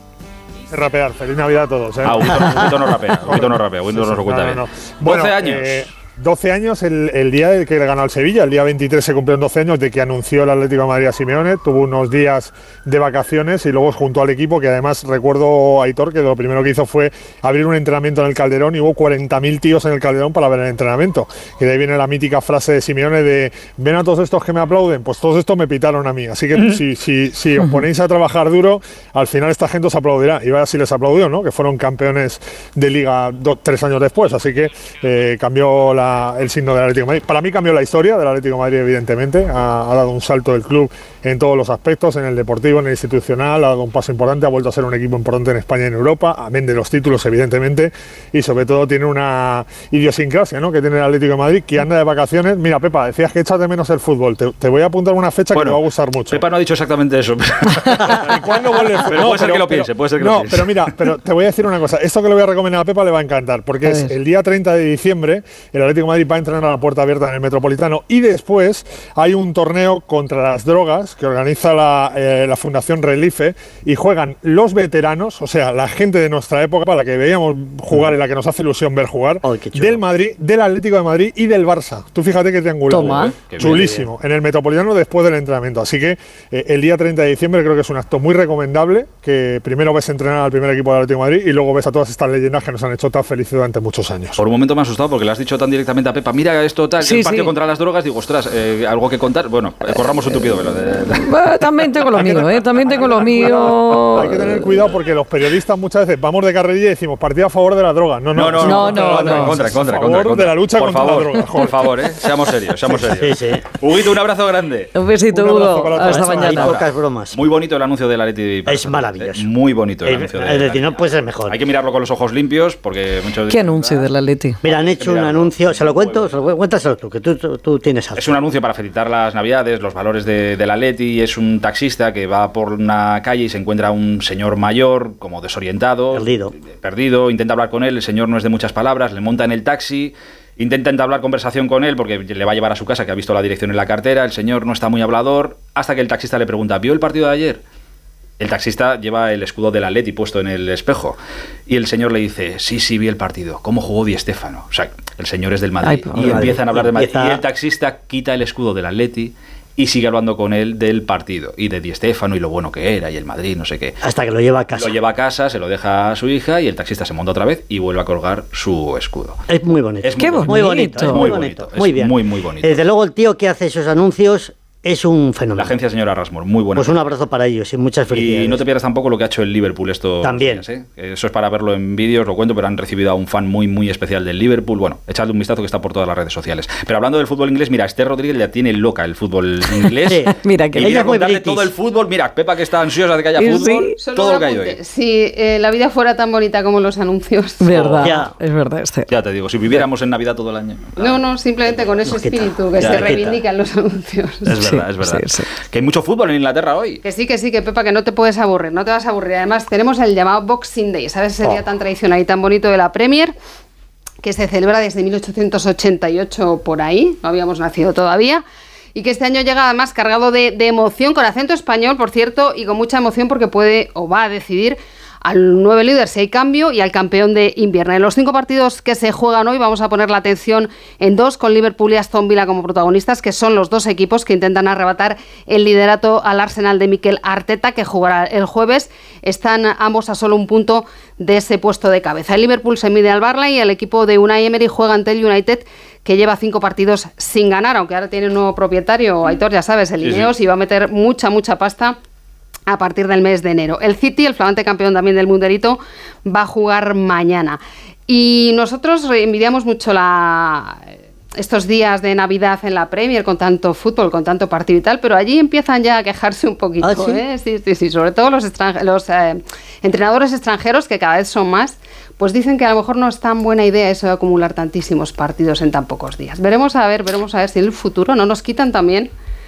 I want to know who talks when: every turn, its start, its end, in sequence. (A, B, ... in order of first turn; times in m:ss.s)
0:00.7-0:56.4 A
0:02.0-0:05.9 B
0:27.6-0:27.8 C
0:55.5-1:01.1 B
0:58.2-1:34.4 A
1:03.8-1:04.1 C
1:17.9-1:18.1 D
1:19.4-1:20.0 D
1:22.9-1:23.4 C
1:23.0-1:24.0 B
1:23.8-1:24.1 D
1:34.4-1:41.5 B
1:37.0-1:37.5 C
1:41.2-1:44.8 C
1:42.1-1:52.1 A
1:48.4-1:55.0 B
1:48.6-1:49.6 C
1:52.8-1:53.6 D
1:54.9-1:56.8 C
1:55.3-1:56.8 A
1:56.1-1:57.4 D
1:57.3-2:04.1 B
1:58.6-1:59.5 D
2:00.0-2:01.6 D
2:03.5-2:04.6 C
2:04.6-2:08.4 D
2:04.6-2:06.4 B
2:08.1-2:27.6 B
2:16.1-2:16.5 D
2:28.4-2:31.2 B
2:31.7-2:44.0 B
2:35.8-2:36.6 C
2:36.1-2:37.4 D
2:44.0-2:45.0 D
2:44.8-2:49.4 B
2:49.5-2:55.8 D
2:50.0-2:52.8 B
2:50.2-2:51.4 C
2:55.6-2:57.1 B
2:56.8-2:58.6 D
2:58.1-3:14.8 B
3:00.2-3:00.6 D
3:10.0-3:11.7 D
3:10.2-3:11.0 C
3:13.4-3:14.0 C
3:14.0-3:17.7 E
3:17.6-3:19.1 C
3:17.8-3:18.1 B
3:18.0-3:18.3 D
3:19.1-3:21.2 B
3:21.1-3:24.5 E
3:22.0-3:23.4 D
3:22.8-3:23.1 B
3:24.5-3:27.0 B
3:24.5-3:25.5 C
3:27.0-3:33.3 E
3:34.2-3:38.4 E
3:39.0-4:11.9 E
4:10.0-4:10.3 B
4:12.7-4:20.7 E
4:21.4-4:39.1 E
4:26.8-4:27.2 D